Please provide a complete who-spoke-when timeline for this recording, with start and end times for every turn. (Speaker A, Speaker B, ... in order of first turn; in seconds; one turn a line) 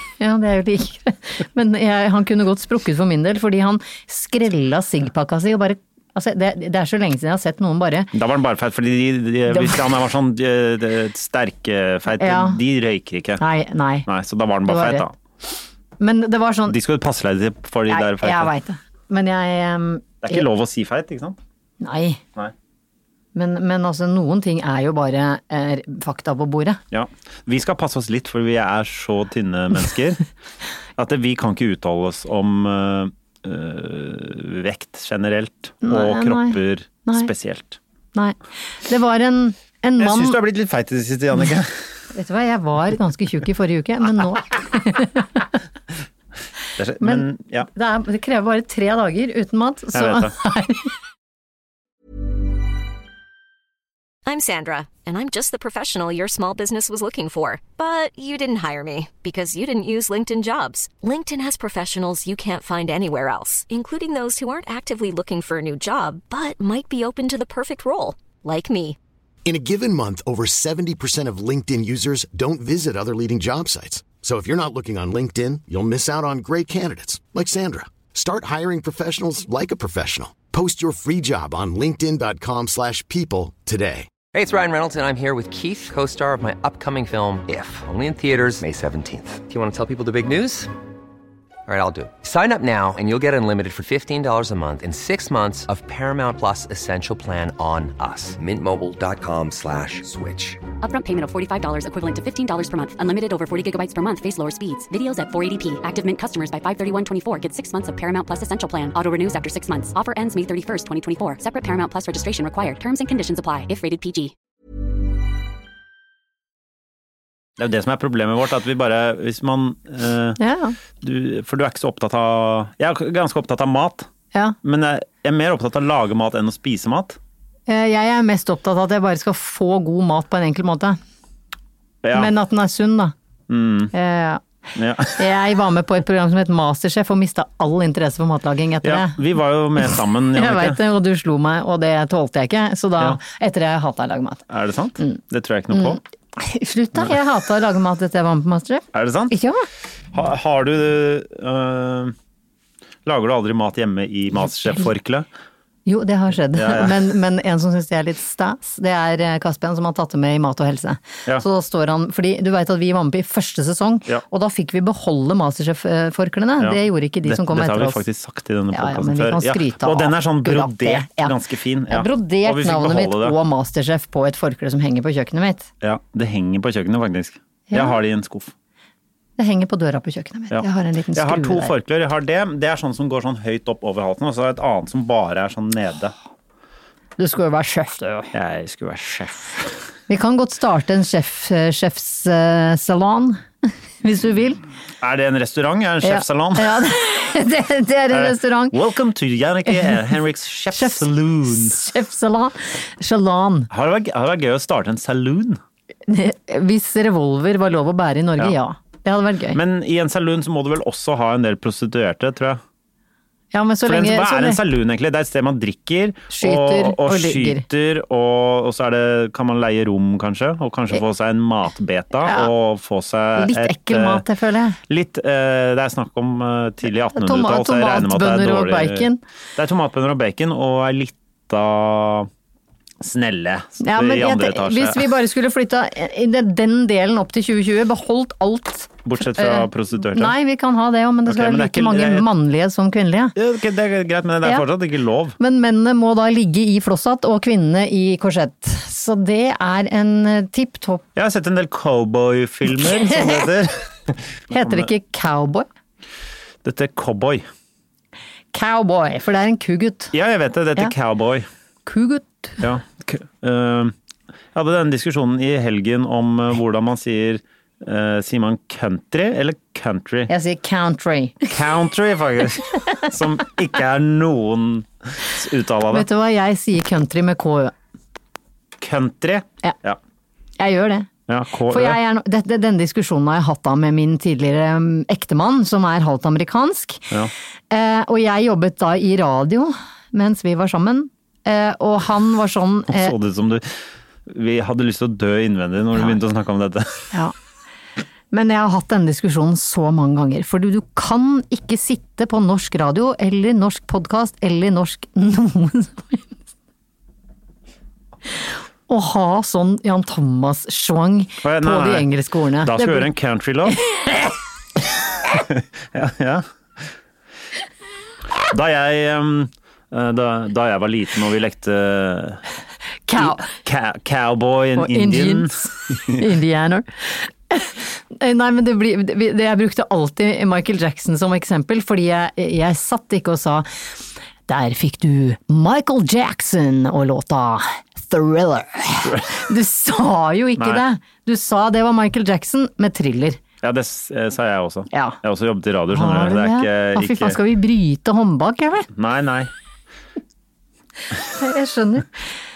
Speaker A: 0.2-8.1
Speaker B: 8.1-13.4
Speaker A: 9.5-9.8
Speaker A: 12.2-12.6
Speaker A: 13.4-14.1
Speaker B: 14.1-15.1
Speaker A: 14.7-15.1
Speaker A: 16.0-16.8
Speaker B: 16.7-18.5
Speaker A: 17.9-20.5
Speaker B: 20.2-21.4
Speaker A: 21.8-22.2
Speaker A: 23.4-26.8
Speaker B: 26.9-30.2
Speaker B: 31.0-37.8
Speaker A: 35.8-37.3
Speaker A: 38.1-40.4
Speaker B: 40.0-41.8
Speaker A: 42.1-45.4
Speaker B: 46.8-47.7
Speaker A: 47.0-50.9
Speaker B: 49.9-50.3
Speaker C: 54.3-69.0
Speaker D: 69.5-84.1
Speaker E: 84.3-90.7
Speaker E: 91.7-100.6
Speaker F: 100.8-114.3
Speaker B: 117.6-120.4
Speaker A: 120.4-120.8
Speaker B: 121.0-124.1
Speaker B: 124.6-127.2
Speaker A: 127.7-131.0
Speaker B: 132.0-132.3
Speaker A: 132.1-133.1
Speaker B: 133.5-133.9
Speaker A: 133.9-134.4
Speaker B: 134.8-135.3
Speaker A: 135.2-139.2
Speaker B: 138.8-140.8
Speaker A: 139.8-144.4
Speaker B: 144.5-146.0
Speaker A: 145.7-149.7
Speaker B: 148.9-149.3
Speaker B: 150.1-152.2
Speaker B: 153.1-155.3
Speaker A: 155.9-168.0
Speaker B: 156.5-157.0
Speaker B: 166.6-173.4
Speaker A: 168.7-171.4
Speaker A: 171.9-175.7
Speaker B: 175.8-178.5
Speaker A: 177.7-178.0
Speaker A: 179.4-181.7
Speaker B: 180.5-186.1
Speaker A: 187.2-188.3
Speaker B: 188.3-189.8
Speaker A: 190.1-194.6
Speaker B: 195.0-196.9
Speaker A: 196.0-198.8
Speaker B: 198.1-201.8
Speaker A: 199.7-200.0
Speaker A: 200.7-203.7
Speaker B: 203.7-205.6
Speaker A: 206.1-209.6
Speaker B: 209.5-212.6
Speaker A: 213.5-214.6
Speaker B: 213.8-224.2
Speaker A: 216.3-217.6
Speaker A: 222.2-222.5
Speaker A: 223.4-224.8
Speaker B: 224.9-232.3
Speaker A: 227.1-229.2
Speaker B: 233.0-235.1
Speaker A: 233.8-243.3
Speaker B: 239.1-240.3
Speaker B: 241.3-242.3
Speaker B: 243.4-245.4
Speaker A: 245.4-251.1
Speaker B: 251.2-254.9
Speaker A: 252.8-253.4
Speaker A: 254.5-255.7
Speaker B: 256.6-257.5
Speaker A: 258.5-260.1
Speaker B: 260.1-261.5
Speaker A: 261.9-262.6
Speaker B: 262.6-263.9
Speaker B: 264.5-270.3
Speaker A: 270.3-271.5
Speaker B: 271.5-276.1
Speaker A: 275.9-277.7
Speaker B: 278.8-280.0
Speaker A: 280.6-281.1
Speaker B: 281.3-282.0
Speaker A: 281.7-287.1
Speaker A: 287.7-293.1
Speaker B: 292.9-297.1
Speaker A: 298.3-306.4
Speaker A: 308.9-313.1
Speaker B: 311.4-312.1
Speaker B: 312.6-313.8
Speaker B: 315.3-316.9
Speaker B: 318.4-322.4
Speaker A: 323.1-323.5
Speaker B: 323.2-326.2
Speaker A: 324.8-333.7
Speaker A: 334.5-343.4
Speaker B: 339.0-339.4
Speaker B: 340.6-340.8
Speaker B: 343.6-347.4
Speaker A: 344.9-345.2
Speaker A: 345.9-348.9
Speaker B: 348.9-349.5
Speaker A: 351.2-352.3